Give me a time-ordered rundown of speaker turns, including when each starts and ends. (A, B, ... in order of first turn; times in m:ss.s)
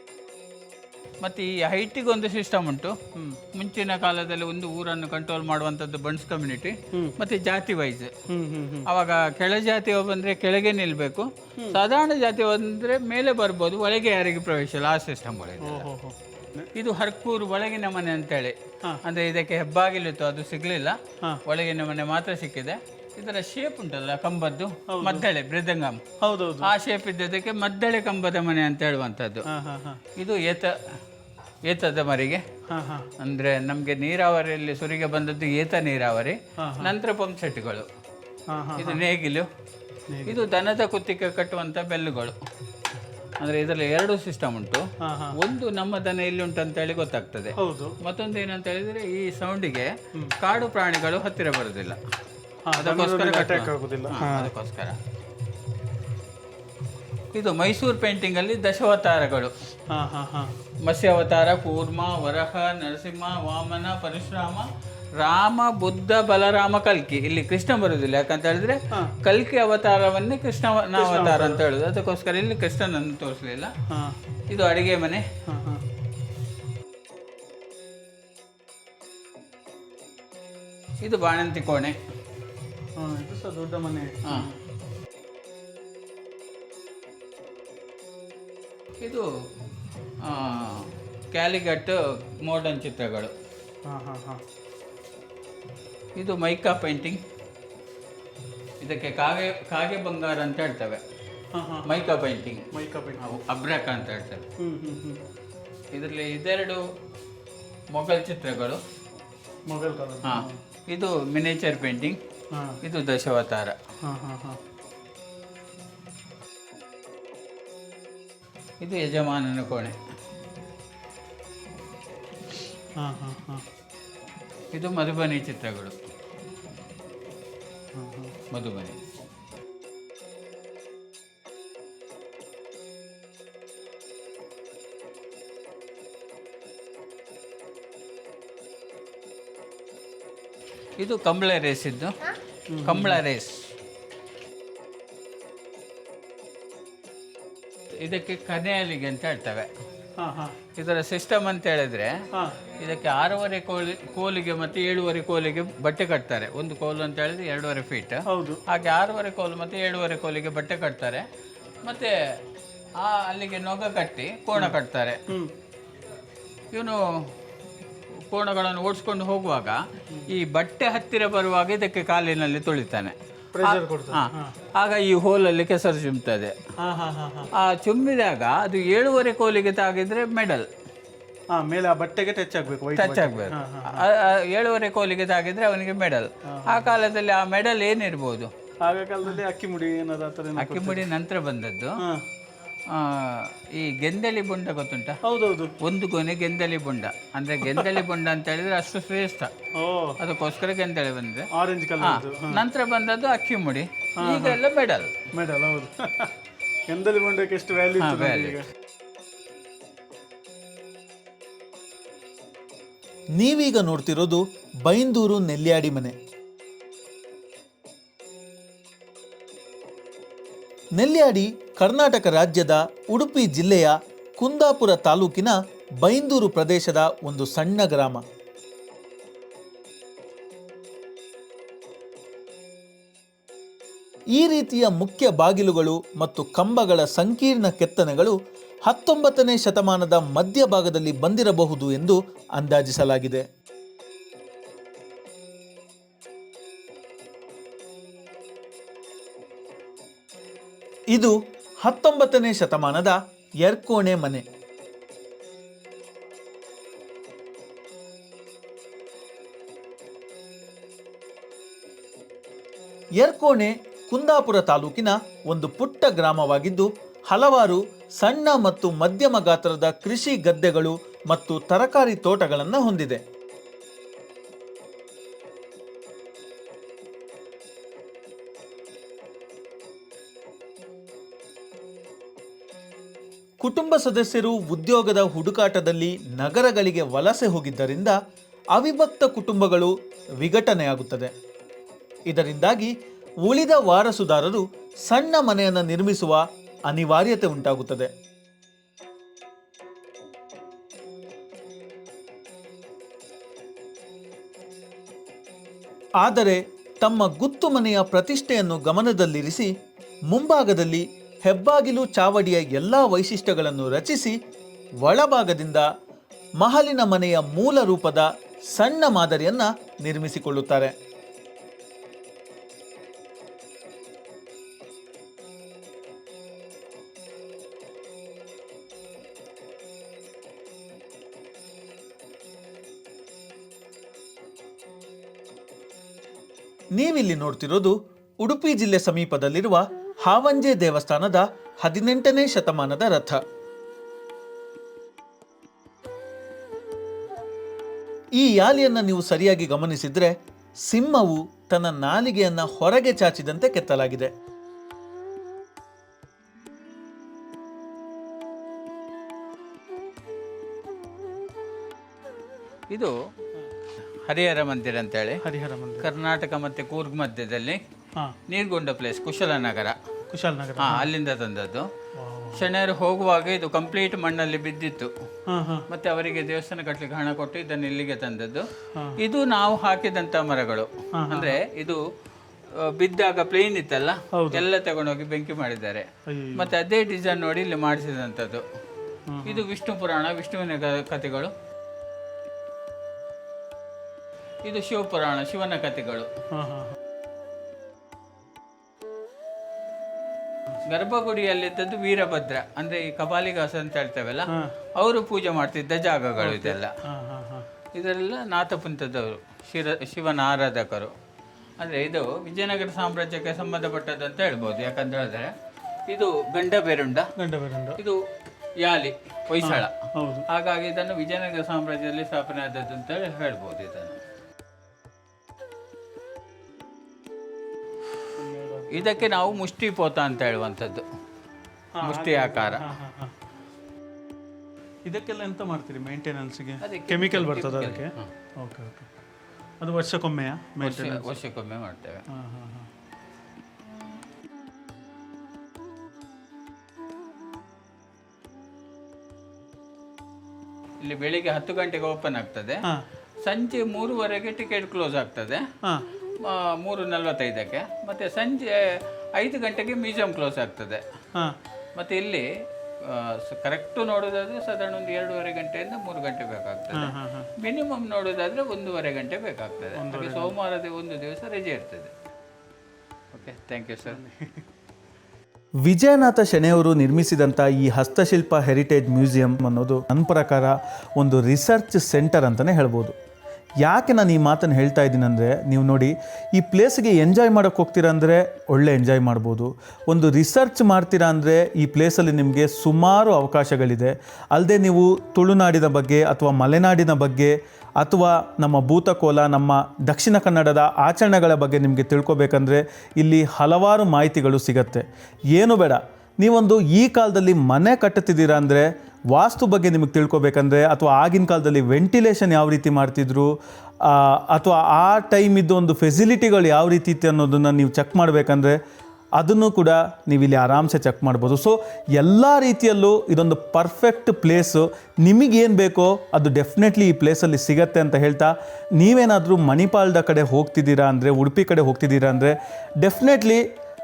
0:01.2-0:02.9 A
0:03.2-0:03.4 B
0:03.5-0:08.1 A
0:08.3-0:08.9 B
0:08.8-0:15.9 A
0:15.6-0:16.7 B
0:16.7-0:26.0 A
0:24.9-0:25.3 B
0:26.2-0:26.7 B
0:26.6-0:29.5 A
0:29.5-0:30.0 B
0:30.2-0:30.8 A
0:31.7-0:32.4 A
0:32.7-0:33.1 B
0:33.2-0:37.9 A
0:36.6-0:36.9 B
0:38.5-0:39.0 B
0:38.8-0:39.5 A
0:40.1-0:40.5 B
0:40.3-0:42.4 A
0:43.4-0:44.8 A
0:45.0-0:45.4 B
0:45.3-0:52.0 A
0:47.6-0:48.0 B
0:52.7-0:54.5 B
0:52.8-0:55.0 A
0:57.3-0:59.5 A
0:59.9-1:00.5 B
1:00.8-1:13.7 A
1:11.0-1:11.6 B
1:13.9-1:14.2 B
1:14.5-1:15.2 A
1:15.5-1:15.8 B
1:21.0-1:22.0 A
1:23.0-1:24.6 B
1:24.2-1:24.5 A
1:29.0-1:29.3 A
1:30.2-1:33.3 A
1:33.8-1:34.4 B
1:36.2-1:37.2 A
1:38.8-1:41.0 A
1:41.5-1:41.9 B
1:41.8-1:42.6 A
1:42.7-1:43.3 B
1:43.2-1:44.4 A
1:44.6-1:45.2 B
1:45.9-1:46.8 A
1:47.9-1:48.8 A
1:49.7-1:50.6 B
1:50.2-1:52.2 A
1:52.5-1:52.8 B
1:52.8-1:53.8 A
1:54.0-1:54.6 B
1:58.8-2:00.0 A
2:03.0-2:03.6 B
2:04.7-2:05.9 A
2:08.0-2:08.4 B
2:08.5-2:09.0 A
2:21.0-2:22.3 A
2:22.7-2:23.2 B
2:22.8-2:23.5 A
2:28.0-2:29.7 A
2:30.2-2:30.6 B
2:30.8-2:32.1 A
2:32.8-2:41.3 A
2:38.3-2:38.6 B
2:41.8-2:42.2 A
2:43.0-2:45.2 A
2:46.7-2:47.3 A
2:48.3-2:56.6 A
2:53.5-2:54.6 B
2:56.8-2:57.5 B
2:57.5-3:00.7 A
3:01.5-3:04.0 B
3:03.0-3:08.5 A
3:06.5-3:07.0 B
3:08.8-3:11.1 B
3:10.6-3:12.0 A
3:12.9-3:15.2 A
3:15.2-3:15.8 B
3:15.8-3:19.5 A
3:17.7-3:18.0 B
3:19.8-3:20.2 B
3:20.2-3:21.5 A
3:21.5-3:22.6 B
3:22.0-3:25.2 A
3:24.2-3:24.6 B
3:25.3-3:26.3 B
3:26.9-3:28.7 B
3:28.0-3:28.6 A
3:33.4-3:36.2 C
3:41.0-3:48.2 C
3:54.3-3:58.4 C
3:58.9-4:03.4 C
4:11.1-4:14.4 C
4:23.2-4:33.2 C
4:43.6-4:48.2 C
4:48.8-4:51.3 C
4:52.3-4:52.9 C
4:53.4-4:58.1 C
5:06.2-5:09.7 C
5:10.3-5:14.4 C
5:15.0-5:15.9 C
5:16.6-5:20.9 C
5:37.0-5:43.4 C
5:48.4-5:50.4 C
5:50.9-5:54.3 C
6:04.3-6:05.4 A
6:05.4-6:06.1 B
6:06.0-6:07.8 A
6:08.5-6:10.0 A
6:10.3-6:11.1 B
6:10.8-6:11.9 A
6:12.2-6:12.6 B
6:12.5-6:15.1 A
6:15.5-6:15.9 B
6:15.9-6:22.0 A
6:18.9-6:19.2 B
6:21.2-6:21.6 B
6:22.8-6:28.6 A
6:24.4-6:24.6 B
6:26.3-6:26.7 B
6:29.3-6:29.6 B
6:29.4-6:31.5 A
6:34.6-6:36.3 A
6:36.5-6:37.0 B
6:40.9-6:46.9 A
6:46.4-6:47.7 B
6:47.9-6:51.1 A
6:51.8-6:55.5 A
6:56.1-6:57.3 A
6:57.4-6:58.0 B
6:58.8-6:59.9 A
6:59.6-7:00.4 B
7:00.5-7:04.2 A
7:08.3-7:09.6 B
7:08.9-7:11.0 A
7:12.0-7:13.4 B
7:12.0-7:12.8 A
7:15.0-7:19.1 B
7:16.8-7:18.3 A
7:19.8-7:21.4 B
7:20.8-7:22.2 A
7:22.3-7:22.9 B
7:31.0-7:32.8 A
7:33.4-7:35.6 A
7:36.4-7:41.0 A
7:42.0-7:42.5 A
7:43.0-7:52.1 A
7:46.9-7:47.5 B
7:50.0-7:50.6 B
7:53.3-7:54.2 A
7:54.1-7:54.7 B
7:55.9-8:03.2 C
8:03.8-8:33.5 C
8:34.0-8:38.8 C
8:39.4-8:53.6 C